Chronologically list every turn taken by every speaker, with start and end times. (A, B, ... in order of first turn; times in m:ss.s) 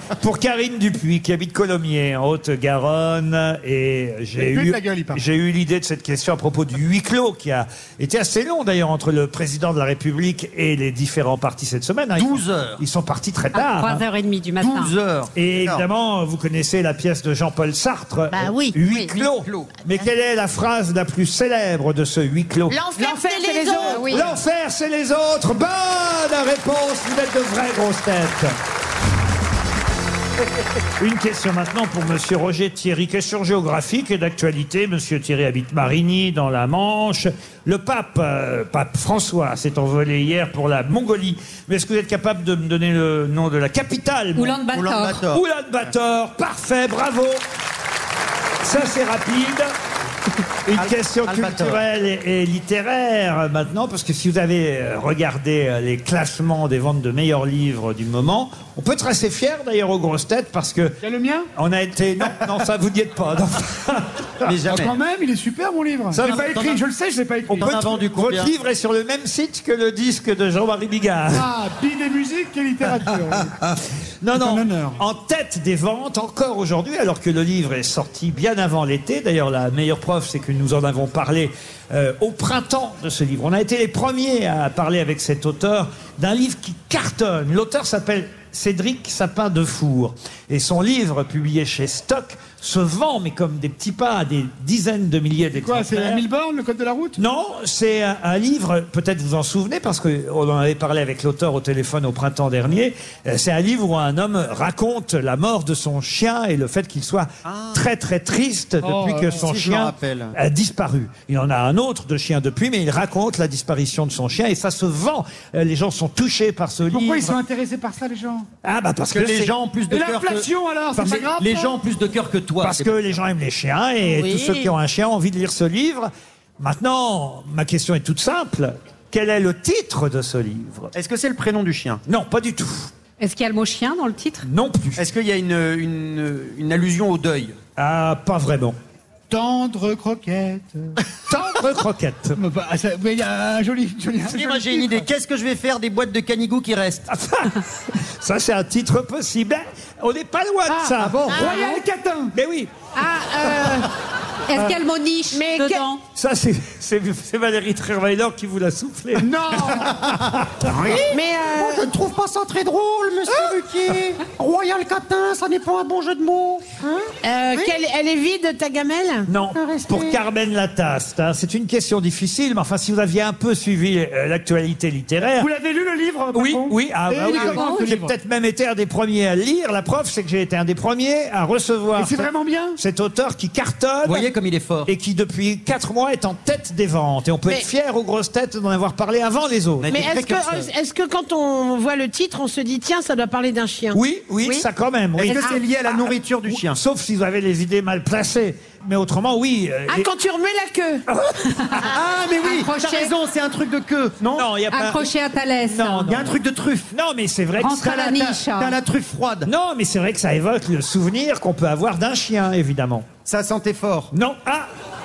0:00.2-0:14.0 A
0:04.4-0:05.2 B
0:12.2-0:12.8 C
0:13.5-0:14.9 D
0:14.6-0:15.8 C
0:15.4-0:22.8 A
0:18.3-0:18.8 E
0:19.1-0:19.7 C
0:22.7-0:24.2 E
0:23.0-0:24.1 F
0:23.8-0:24.2 D
0:24.1-0:28.5 A
0:31.0-0:44.6 A
0:44.4-0:45.2 D
0:44.7-0:45.4 C
0:45.3-0:47.4 A
0:48.6-0:49.7 A
0:50.7-1:01.0 A
0:50.7-0:51.8 C
1:01.0-1:01.5 B
1:01.6-1:04.5 A
1:04.4-1:05.0 C
1:04.7-1:07.8 B
1:06.1-1:06.5 A
1:06.2-1:06.8 C
1:07.5-1:11.5 A
1:07.6-1:08.5 C
1:11.3-1:13.5 B
1:14.2-1:36.2 A
1:14.4-1:15.0 B
1:35.6-1:37.2 B
1:37.2-1:57.4 A
1:47.4-1:47.8 C
1:48.8-1:49.4 B
1:49.3-1:50.4 C
1:56.9-1:58.5 B
1:58.6-1:59.5 A
1:59.1-2:03.0 C
1:59.9-2:01.7 B
2:02.6-2:10.9 A
2:04.1-2:04.7 F
2:10.9-2:12.0 C
2:12.1-2:12.9 A
2:13.2-2:14.5 D
2:14.4-2:15.0 A
2:15.0-2:17.6 C
2:17.8-2:18.8 A
2:19.3-2:21.0 B
2:21.3-2:22.4 A
2:22.4-2:25.0 B
2:24.2-2:27.1 C
2:27.1-2:31.6 A
2:30.7-2:32.3 B
2:31.0-2:31.5 C
2:32.3-2:32.7 A
2:33.0-2:33.9 F
2:34.5-2:36.0 D
2:35.3-2:35.8 F
2:36.2-2:40.9 A
2:39.2-2:39.9 B
2:40.7-2:47.7 C
2:41.1-2:41.9 F
2:47.2-2:49.3 F
2:49.3-2:55.5 A
2:49.5-2:50.2 C
2:55.4-2:58.1 B
2:56.3-3:04.3 A
2:57.3-2:57.9 D
3:02.0-3:02.8 B
3:04.0-3:04.9 C
3:04.9-3:10.0 A
3:09.8-3:10.7 C
3:09.9-3:14.6 F
3:13.9-3:15.5 A
3:15.2-3:16.8 C
3:16.5-3:20.1 A
3:19.9-3:21.0 F
3:21.1-3:21.9 A
3:21.6-3:21.8 D
3:21.9-3:24.5 C
3:22.4-3:23.1 D
3:24.3-3:26.4 A
3:24.7-3:26.1 D
3:26.1-3:26.9 C
3:26.9-3:28.3 A
3:27.6-3:28.8 D
3:27.9-3:29.5 C
3:29.4-3:33.1 A
3:33.3-3:34.1 C
3:34.1-3:34.7 A